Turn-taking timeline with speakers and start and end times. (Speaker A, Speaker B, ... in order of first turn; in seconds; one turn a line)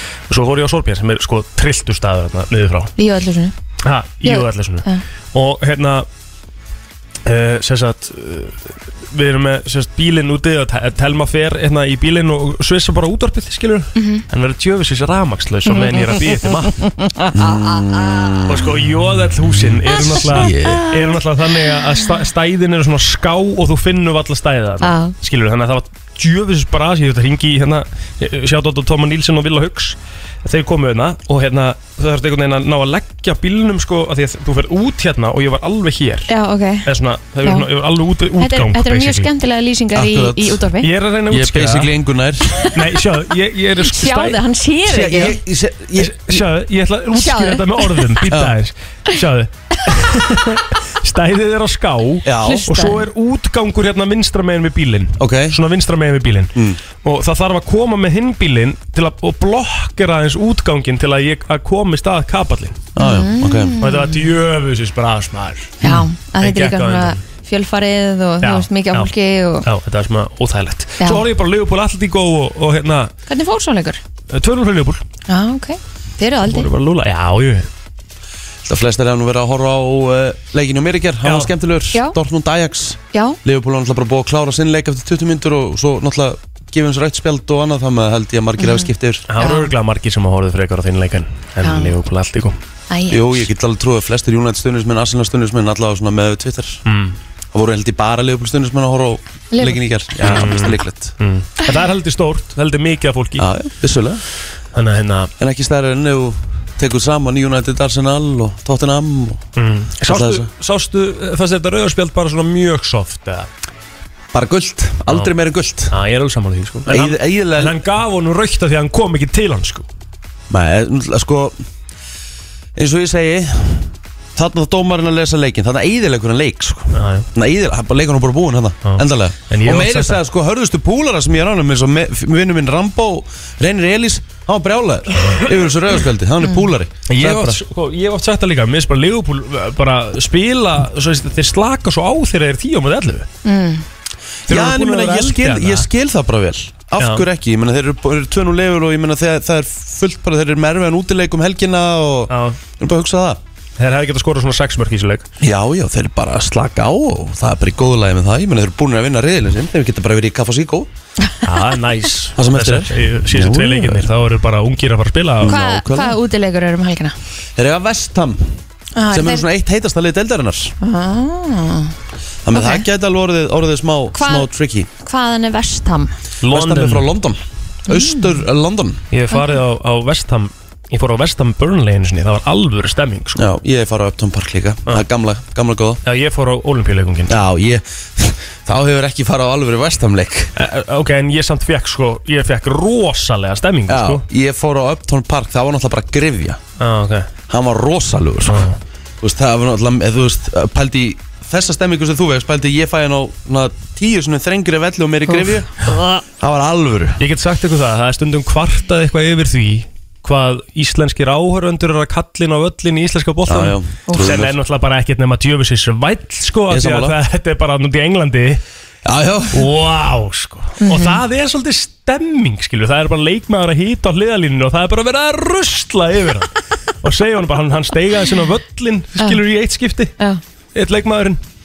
Speaker A: 0.3-2.9
Speaker B: 3.0-3.5
Speaker A: 3.9-6.1
Speaker B: 4.2-5.0
Speaker A: 7.3-16.9
Speaker B: 13.9-14.2
Speaker B: 15.7-18.2
Speaker C: 17.3-18.8
Speaker A: 18.5-36.3
Speaker B: 19.9-21.1
Speaker C: 20.2-20.9
Speaker B: 24.8-25.1
Speaker B: 36.3-36.9
Speaker A: 36.9-39.3
Speaker B: 37.4-37.7
Speaker B: 38.4-40.9
Speaker C: 40.0-40.6
Speaker A: 40.8-41.9
Speaker C: 41.3-42.6
Speaker A: 42.7-44.4
Speaker B: 43.8-45.4
Speaker C: 44.9-46.5
Speaker A: 46.0-62.9
Speaker B: 47.1-48.1
Speaker C: 48.3-48.5
Speaker C: 52.2-52.7
Speaker B: 52.4-53.1
Speaker C: 55.2-55.6
Speaker C: 63.0-63.8
Speaker B: 63.0-64.3
Speaker A: 63.8-67.2
Speaker B: 65.8-69.7
Speaker A: 68.4-69.1
Speaker A: 69.6-73.1
Speaker B: 73.3-74.0
Speaker A: 74.3-75.0
Speaker B: 75.3-76.7
Speaker A: 76.5-77.7
Speaker C: 78.7-89.3
Speaker A: 81.2-81.5
Speaker B: 83.1-83.4
Speaker B: 88.6-89.7
Speaker A: 89.3-92.6
Speaker B: 91.6-92.0
Speaker B: 92.9-93.5
Speaker C: 93.1-96.8
Speaker A: 96.9-97.2
Speaker C: 97.5-101.2
Speaker B: 99.5-100.4
Speaker A: 100.2-103.5
Speaker C: 103.4-104.2
Speaker A: 104.7-105.3
Speaker C: 105.4-109.4
Speaker A: 109.6-113.5
Speaker C: 110.0-110.5
Speaker C: 114.3-115.9
Speaker A: 115.9-119.9
Speaker C: 116.9-117.8
Speaker C: 120.5-121.6
Speaker C: 122.8-137.6
Speaker A: 126.9-127.3
Speaker A: 128.8-130.2
Speaker A: 137.1-143.3
Speaker B: 143.4-143.8
Speaker A: 144.5-145.9
Speaker C: 144.5-153.4
Speaker A: 147.0-147.3
Speaker A: 152.3-152.6
Speaker A: 153.8-155.3
Speaker C: 155.4-160.9
Speaker A: 161.4-165.6
Speaker C: 162.4-164.1
Speaker C: 165.4-166.2
Speaker B: 165.4-167.2
Speaker C: 167.6-168.6
Speaker B: 169.0-169.4
Speaker C: 169.1-170.8
Speaker B: 170.8-171.9
Speaker C: 172.4-174.9
Speaker B: 172.5-172.9
Speaker B: 174.1-176.1
Speaker A: 176.4-177.1
Speaker C: 176.5-179.0
Speaker B: 177.9-178.3
Speaker A: 179.1-183.5
Speaker C: 183.4-186.0
Speaker A: 186.1-187.4
Speaker C: 187.3-190.5
Speaker A: 190.6-194.2
Speaker C: 193.9-196.6
Speaker A: 196.8-197.3
Speaker C: 197.5-198.7
Speaker A: 198.5-198.8
Speaker C: 199.2-205.7
Speaker B: 205.3-205.9
Speaker C: 206.4-207.2
Speaker A: 207.2-218.6
Speaker C: 213.5-214.6
Speaker B: 214.1-214.3
Speaker C: 216.7-217.2
Speaker C: 219.1-219.7
Speaker A: 219.5-230.2
Speaker B: 220.8-221.2
Speaker A: 230.8-231.4